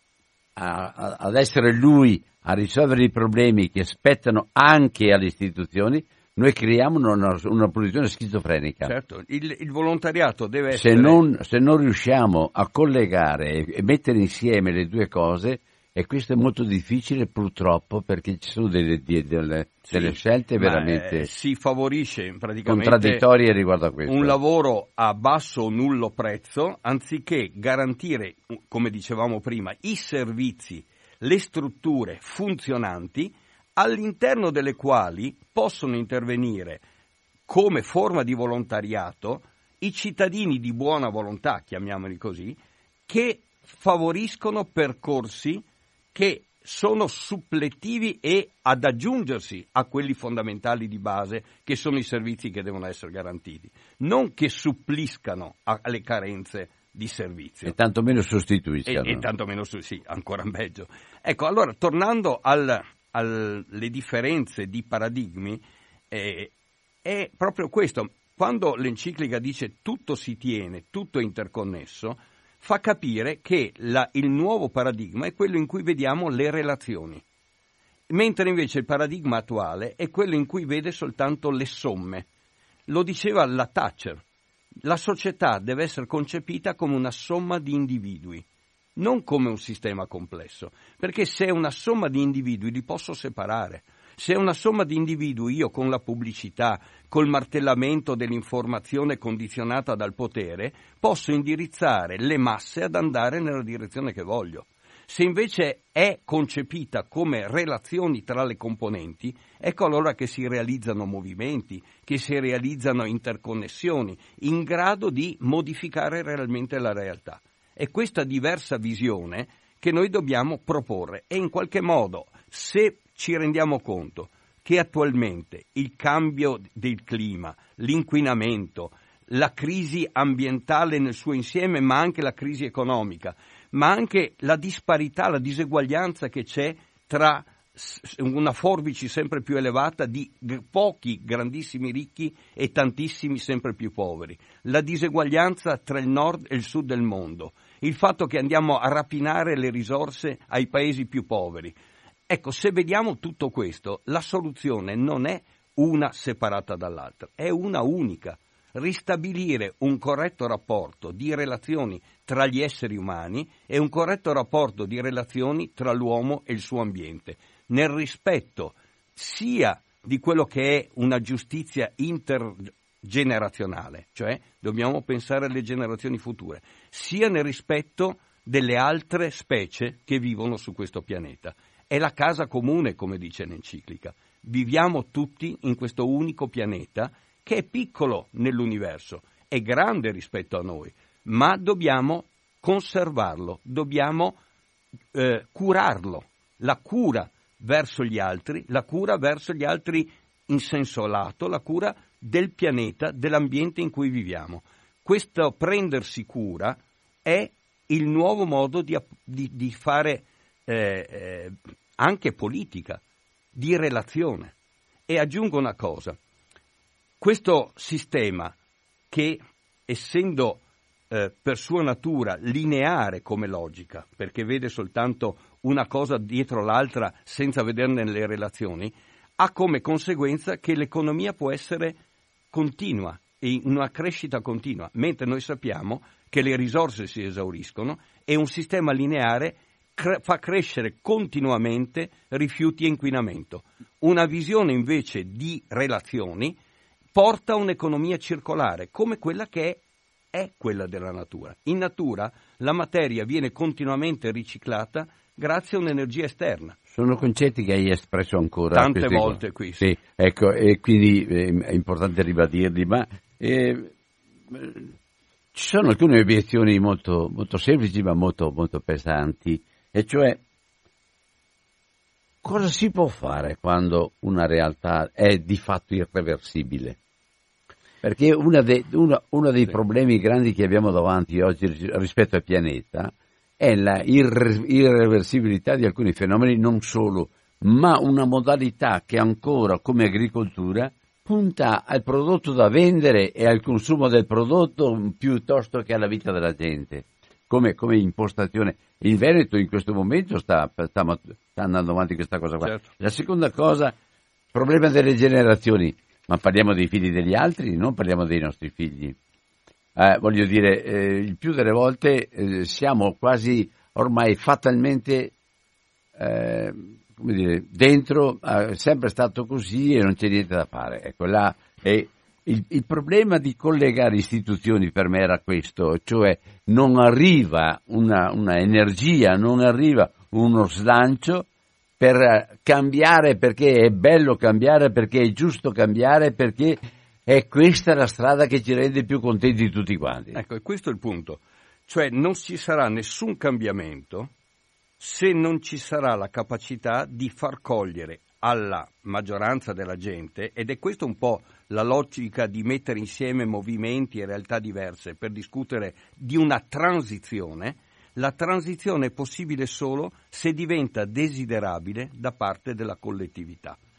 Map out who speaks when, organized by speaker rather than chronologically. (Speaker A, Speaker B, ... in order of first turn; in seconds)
Speaker A: 0.6-8.9, 10.7-21.3, 22.6-24.4, 57.6-59.2, 256.9-263.9, 264.5-264.9, 265.5-270.4, 272.4-277.0, 278.0-303.9, 304.5-309.1, 309.9-315.3, 316.2-331.5, 332.0-340.4
Speaker B: 8.8-11.2, 19.8-23.2, 24.1-36.8, 37.5-57.8, 58.9-66.5, 67.0-77.2, 78.1-82.3, 82.9-84.2, 84.8-88.4, 89.0-151.8, 152.3-194.4, 195.1-213.0, 213.5-214.5, 215.1-216.2, 217.2-218.5, 219.1-232.0, 232.5-246.6, 247.1-249.8, 250.3-256.8, 258.7-259.9, 302.6-302.9, 340.3-344.3, 345.0-363.8